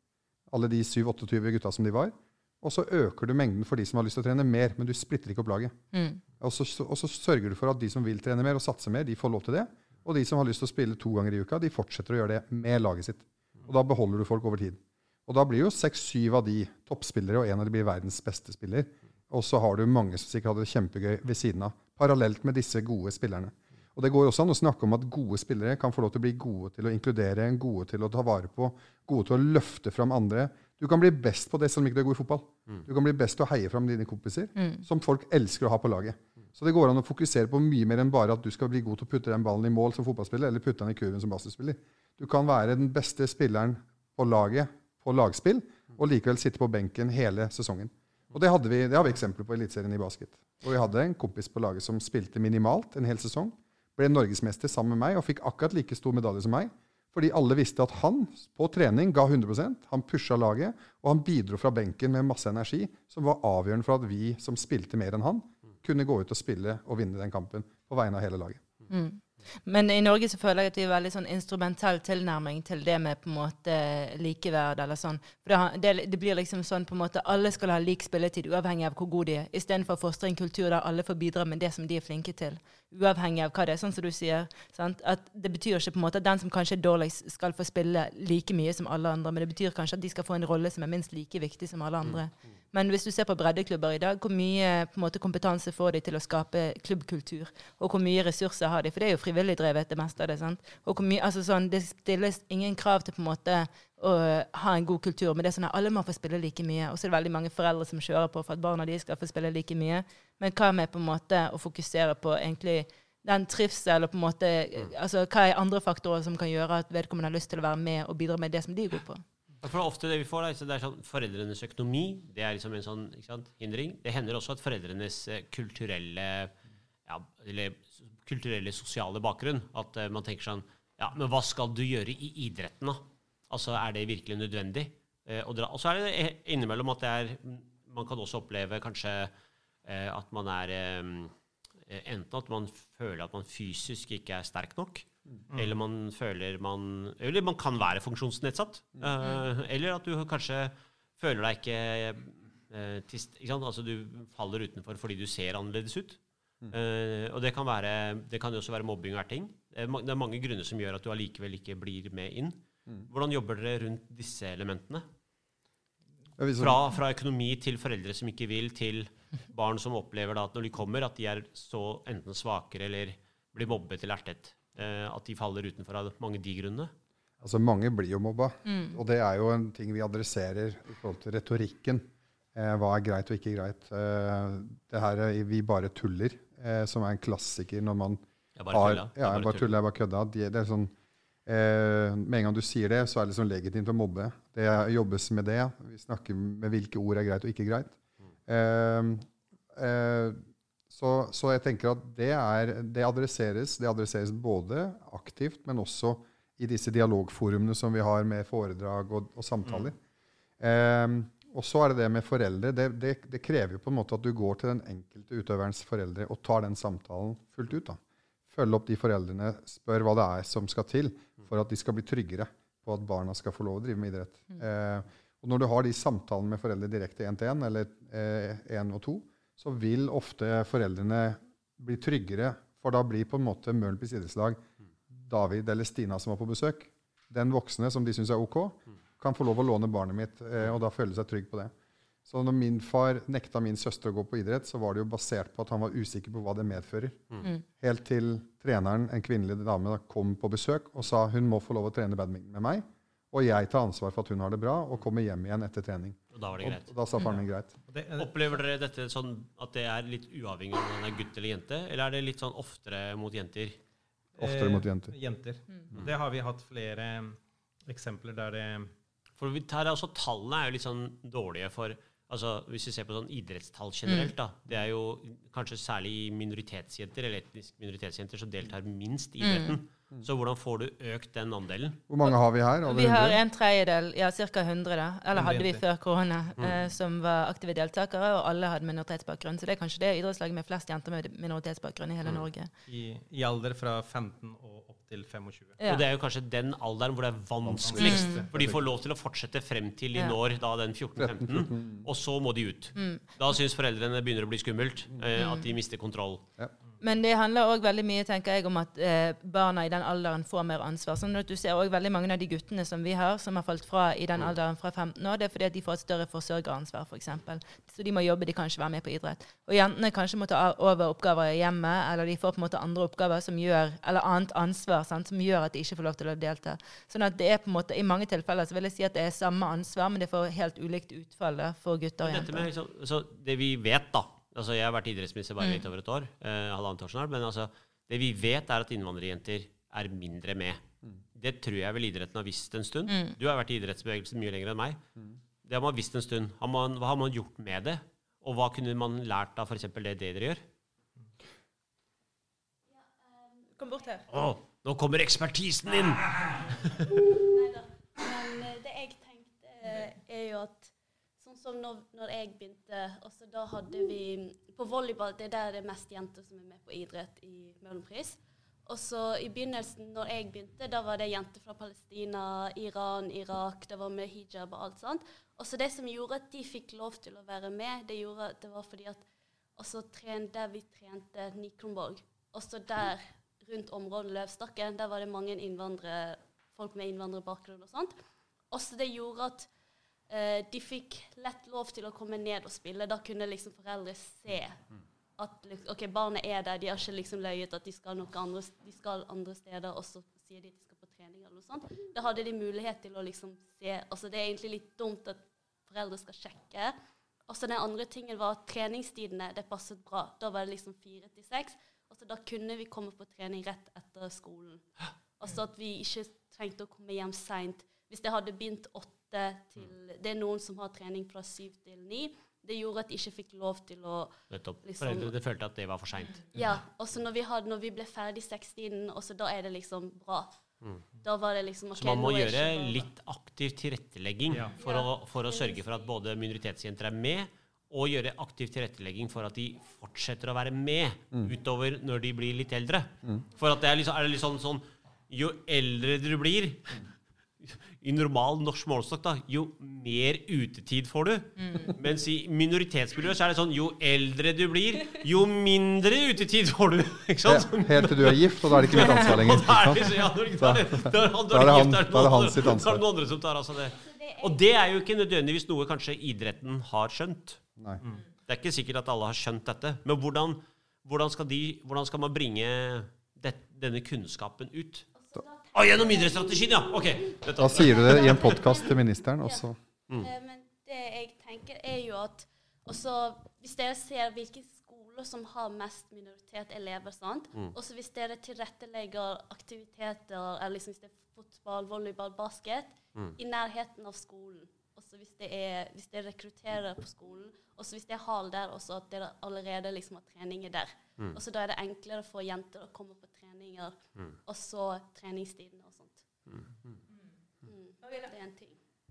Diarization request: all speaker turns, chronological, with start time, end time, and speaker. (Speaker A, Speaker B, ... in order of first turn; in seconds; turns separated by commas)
Speaker A: 0.5-5.8, Speaker B: 5.9-6.2, Speaker A: 6.4-68.6, Speaker B: 34.6-34.8, Speaker B: 68.9-119.2, Speaker C: 119.6-126.5, Speaker C: 127.1-139.3, Speaker C: 139.8-141.3, Speaker C: 141.9-165.1, Speaker A: 166.4-166.8, Speaker C: 166.6-176.9, Speaker A: 177.4-190.9, Speaker B: 178.7-179.0, Speaker C: 188.6-189.7, Speaker A: 191.5-210.0, Speaker D: 209.7-209.9, Speaker A: 210.6-241.7, Speaker A: 242.3-257.8, Speaker C: 256.3-256.9, Speaker D: 257.9-258.5, Speaker C: 258.2-263.8, Speaker D: 264.4-268.9, Speaker A: 264.4-265.1, Speaker C: 269.4-282.0, Speaker B: 274.1-274.3, Speaker B: 279.4-279.8, Speaker A: 282.1-283.4, Speaker B: 282.9-292.7, Speaker D: 285.3-285.8, Speaker D: 292.9-295.8, Speaker B: 295.8-296.1, Speaker C: 295.9-306.4, Speaker A: 297.6-298.8, Speaker D: 297.8-298.5, Speaker B: 298.0-298.4, Speaker A: 301.2-302.1, Speaker B: 303.0-303.2, Speaker B: 305.4-305.7, Speaker B: 307.0-332.7, Speaker C: 332.2-340.8, Speaker C: 341.4-345.0, Speaker B: 343.1-343.4, Speaker C: 345.6-350.6, Speaker E: 352.9-354.2, Speaker B: 353.8-354.2, Speaker C: 354.3-356.6, Speaker E: 357.1-379.2, Speaker E: 379.8-388.1, Speaker E: 388.7-389.7, Speaker E: 390.3-394.8, Speaker E: 395.4-406.9, Speaker E: 407.5-414.9, Speaker E: 415.4-425.4, Speaker C: 424.5-426.7, Speaker E: 426.5-430.5, Speaker E: 431.2-433.1, Speaker C: 431.9-447.1, Speaker D: 434.5-434.8, Speaker E: 434.7-436.1, Speaker C: 447.6-467.6, Speaker A: 457.5-463.0, Speaker E: 464.0-464.6, Speaker C: 468.5-475.1, Speaker E: 475.1-476.9, Speaker C: 475.7-478.6, Speaker A: 477.6-479.8, Speaker E: 477.7-479.6, Speaker E: 480.2-506.3, Speaker E: 507.6-508.8